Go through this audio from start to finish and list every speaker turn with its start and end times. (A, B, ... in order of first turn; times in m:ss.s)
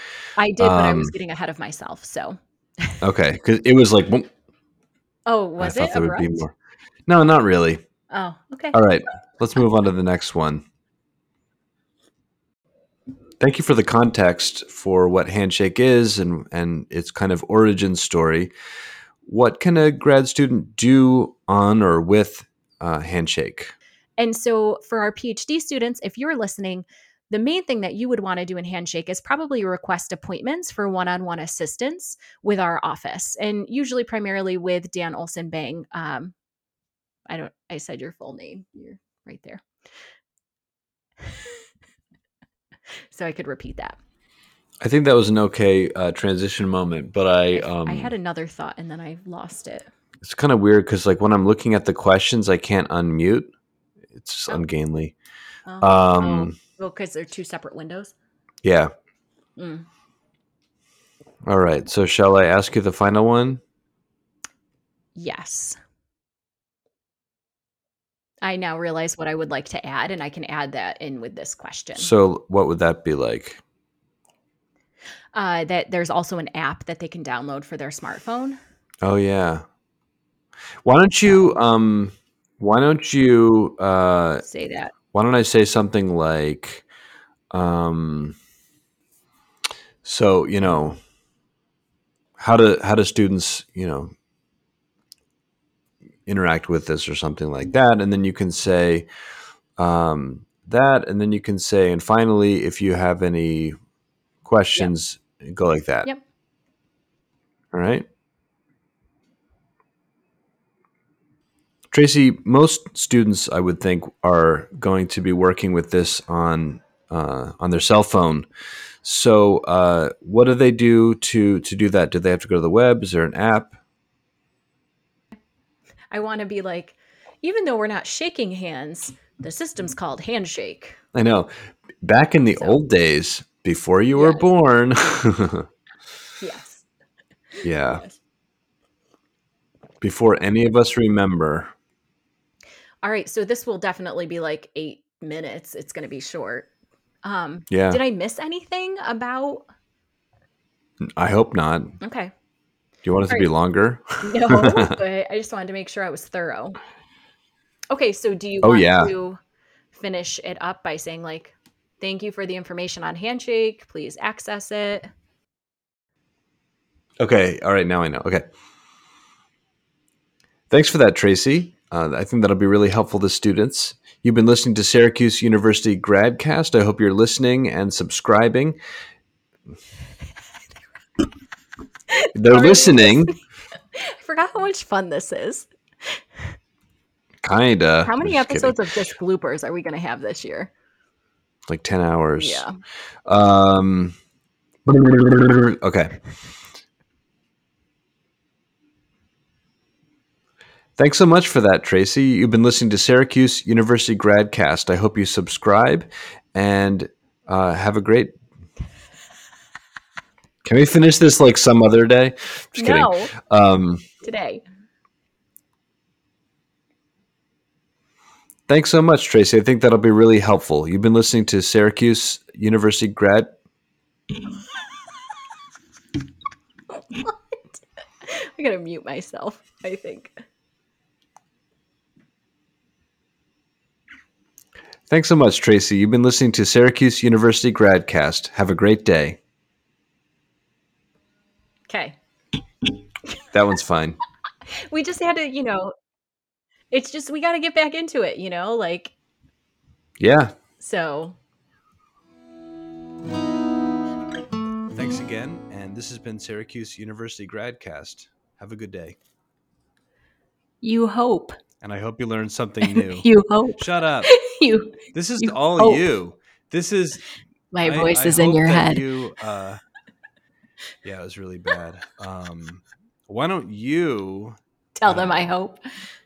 0:00.4-0:03.0 A
0:00.6-0:01.1 B
0:03.0-0:04.3 B
0:05.2-0:06.4 A
0:05.6-0:06.5 B
0:07.1-0:07.8 B
0:08.1-0:08.8 A
0:08.7-0:10.6 B
0:13.4-0:18.5 B
0:19.2-0:23.7 B
0:24.2-0:36.3 A
0:37.3-0:39.6 A
0:43.1-0:44.0 A
0:44.8-0:48.1 B
0:47.5-0:49.9 A
0:50.2-0:53.5 B
0:54.1-0:55.1 B
0:55.6-0:58.1 A
0:55.8-0:56.5 B
0:58.6-0:58.9 B
0:59.6-0:59.9 A
1:01.4-1:03.6 B
1:05.1-1:05.8 A
1:08.4-1:12.1 A
1:12.0-1:13.6 B
1:15.3-1:18.6 A
1:19.0-1:19.6 B
1:20.8-1:24.4 B
1:24.4-1:24.9 A
1:25.1-1:26.8 B
1:27.5-1:28.4 B
1:30.0-1:31.0 B
1:32.4-1:34.1 B
1:36.2-1:39.1 B
1:39.8-1:43.8 B
1:44.4-1:46.1 B
1:47.7-1:48.0 B
1:51.9-1:58.5 B
1:59.0-2:03.8 B
2:06.1-2:11.0 A
2:11.1-2:11.5 B
2:12.0-2:15.6 B
2:14.1-2:14.5 A
2:16.4-2:16.8 A
2:17.6-2:18.0 B
2:17.8-2:18.1 A
2:20.0-2:21.7 B
2:23.0-2:26.7 A
2:27.2-2:29.6 A
2:27.7-2:28.0 B
2:31.2-2:32.0 B
2:32.0-2:32.3 A
2:33.0-2:35.0 B
2:34.2-2:36.8 A
2:37.9-2:39.4 A
2:38.6-2:39.1 B
2:39.9-2:45.1 A
2:47.2-2:48.4 B
2:50.7-2:58.8 B
3:02.1-3:03.4 A
3:02.4-3:03.3 B
3:04.0-3:06.2 A
3:07.4-3:08.8 B
3:08.0-3:10.7 A
3:11.7-3:12.6 B
3:12.4-3:12.7 A
3:13.2-3:14.1 B
3:14.8-3:16.2 B
3:21.0-3:28.3 B
3:30.6-3:34.0 B
3:32.8-3:33.3 A
3:34.2-3:34.6 A
3:38.7-3:43.5 B
3:47.1-3:50.3 A
3:55.1-3:59.4 B
4:01.9-4:02.2 A
4:03.5-4:04.2 B
4:04.9-4:05.9 A
4:06.9-4:09.1 A
4:10.2-4:10.5 B
4:10.8-4:11.4 A
4:14.9-4:19.2 B
4:20.8-4:21.6 A
4:21.8-4:24.3 B
4:22.8-4:26.1 A
4:25.1-4:27.2 B
4:27.7-4:29.1 A
4:27.8-4:29.8 B
4:31.0-4:35.5 B
4:35.0-4:35.8 A